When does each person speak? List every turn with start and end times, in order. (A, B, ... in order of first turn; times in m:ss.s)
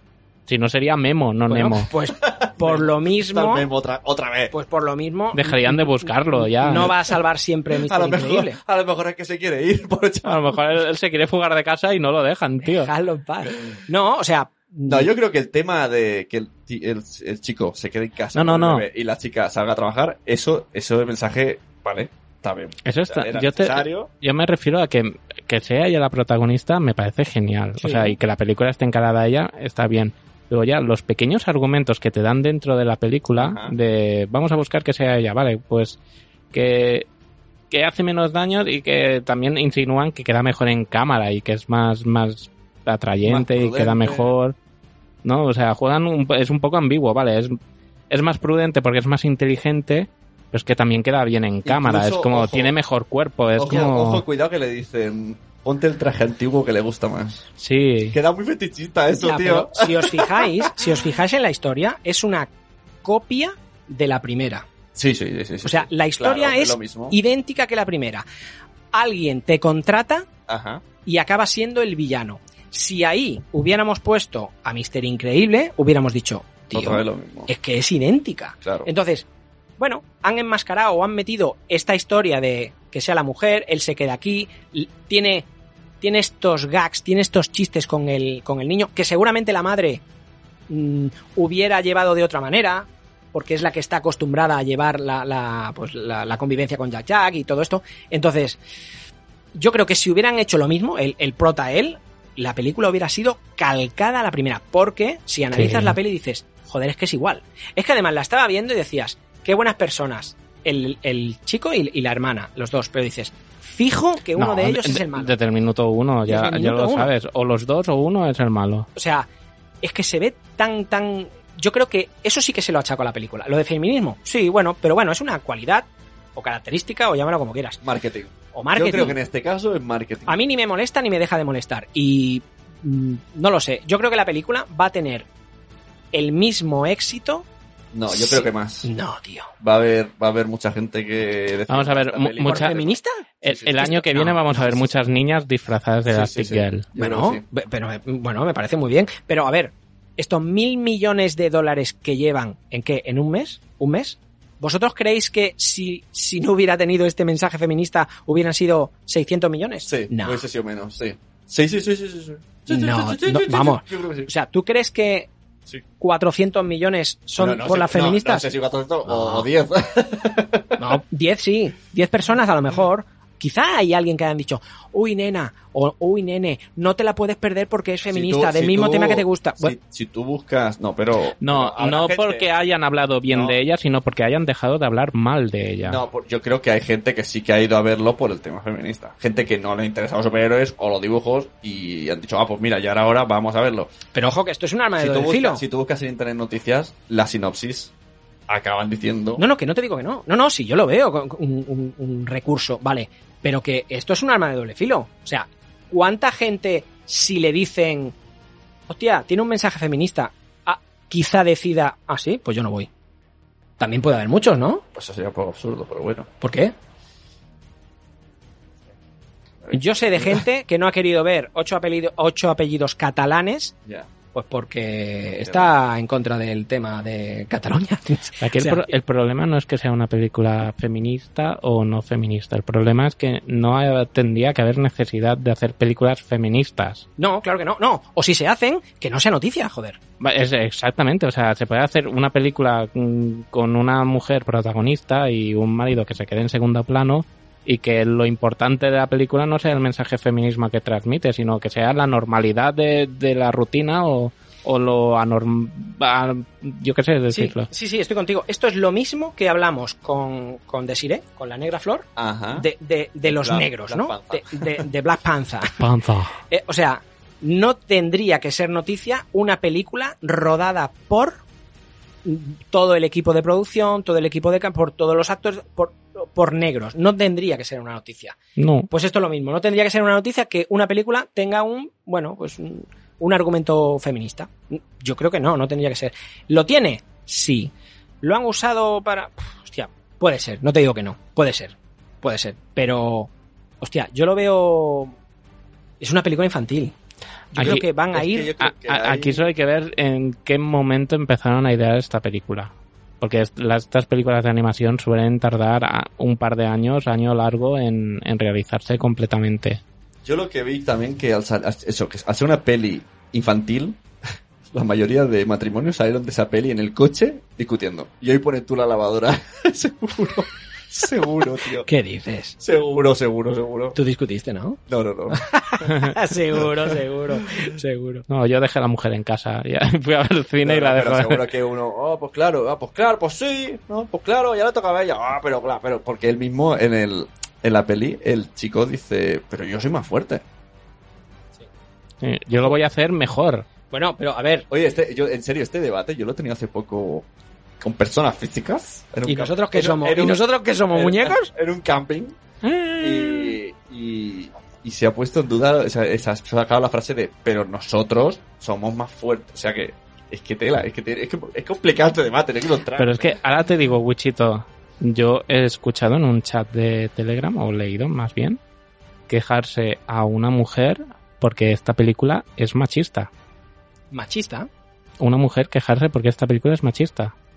0:00.5-0:01.9 A
0:01.5-0:03.7 B
0:02.2-0:04.5 C
0:04.5-0:08.6 B
0:05.3-0:06.9 A
0:07.8-0:10.6 C
0:10.2-0:12.9 A
0:12.6-0:15.1 B
0:13.5-0:13.8 C
0:14.9-0:24.1 C
0:18.3-0:18.8 A
0:22.8-0:36.0 A
0:27.8-0:28.1 B
0:33.4-0:33.7 C
0:36.5-0:37.0 A
0:37.7-0:44.5 A
0:43.2-0:44.3 C
0:45.2-0:47.5 A
0:48.1-0:54.2 A
0:51.6-0:52.7 C
0:53.6-0:57.4 C
0:57.6-0:58.2 A
0:58.1-1:00.7 C
0:59.2-1:02.5 B
1:03.0-1:04.6 B
1:04.9-1:07.2 C
1:05.6-1:08.2 B
1:08.9-1:10.3 B
1:10.5-1:10.8 C
1:11.0-1:19.2 B
1:16.7-1:17.5 C
1:18.6-1:18.9 C
1:19.8-1:25.5 B
1:26.0-1:30.0 B
1:30.7-1:38.6 B
1:39.5-1:55.3 B
1:45.5-1:46.0 A
1:54.4-1:58.9 A
1:56.3-1:57.1 B
1:59.0-1:59.3 B
1:59.8-2:07.8 B
2:07.8-2:10.4 C
2:08.5-2:09.2 B
2:10.3-2:15.3 B
2:16.1-2:17.4 B
2:17.9-2:18.9 C
2:18.1-2:19.5 B
2:19.6-2:24.9 C
2:21.7-2:22.8 A
2:22.4-2:23.2 B
2:23.4-2:26.9 A
2:23.8-2:24.4 B
2:26.0-2:27.4 C
2:27.0-2:40.4 B
2:39.8-2:44.3 C
2:42.7-2:45.3 B
2:46.0-2:48.5 B
2:47.4-2:50.8 C
2:49.0-2:49.5 B
2:50.8-2:59.7 B
2:58.1-3:02.5 C
3:01.4-3:06.0 A
3:03.3-3:03.6 C
3:05.8-3:13.9 C
3:14.1-3:15.6 B
3:15.0-3:17.9 C
3:18.5-3:19.4 C
3:19.4-3:28.1 B
3:28.9-3:32.9 B
3:33.8-3:34.8 B
3:34.9-3:36.3 C
3:36.4-3:36.7 B
3:39.6-3:40.4 C
3:39.7-3:43.7 B
3:44.3-3:48.9 B
3:45.4-3:45.7 C
3:48.4-3:57.0 A
3:57.2-4:00.0 B
4:00.2-4:17.7 A
4:17.3-4:25.8 B
4:22.2-4:22.7 C
4:23.2-4:24.8 C
4:25.8-4:26.3 A
4:26.5-4:31.4 B
4:32.2-4:38.4 B
4:38.6-4:38.9 A
4:38.9-4:53.3 B
4:53.8-4:55.2 B
4:56.0-4:56.9 B
4:57.5-4:58.5 B
4:57.6-4:57.8 A
4:57.6-4:59.5 C
4:58.6-5:09.8 A
5:10.2-5:14.0 C
5:14.7-5:21.9 C
5:21.8-5:22.6 B
5:22.6-5:24.0 C
5:23.9-5:24.8 B
5:24.9-5:25.4 C
5:25.3-5:28.2 B
5:28.3-5:31.4 A
5:30.6-5:40.4 C
5:42.2-5:43.6 A
5:43.9-5:44.7 B
5:44.7-5:47.3 C
5:47.8-5:52.4 C
5:49.2-5:51.5 B
5:52.6-5:53.6 A
5:53.0-6:03.3 C
6:03.0-6:08.6 A
6:09.3-6:13.3 A
6:14.1-6:14.7 B
6:15.2-6:17.3 A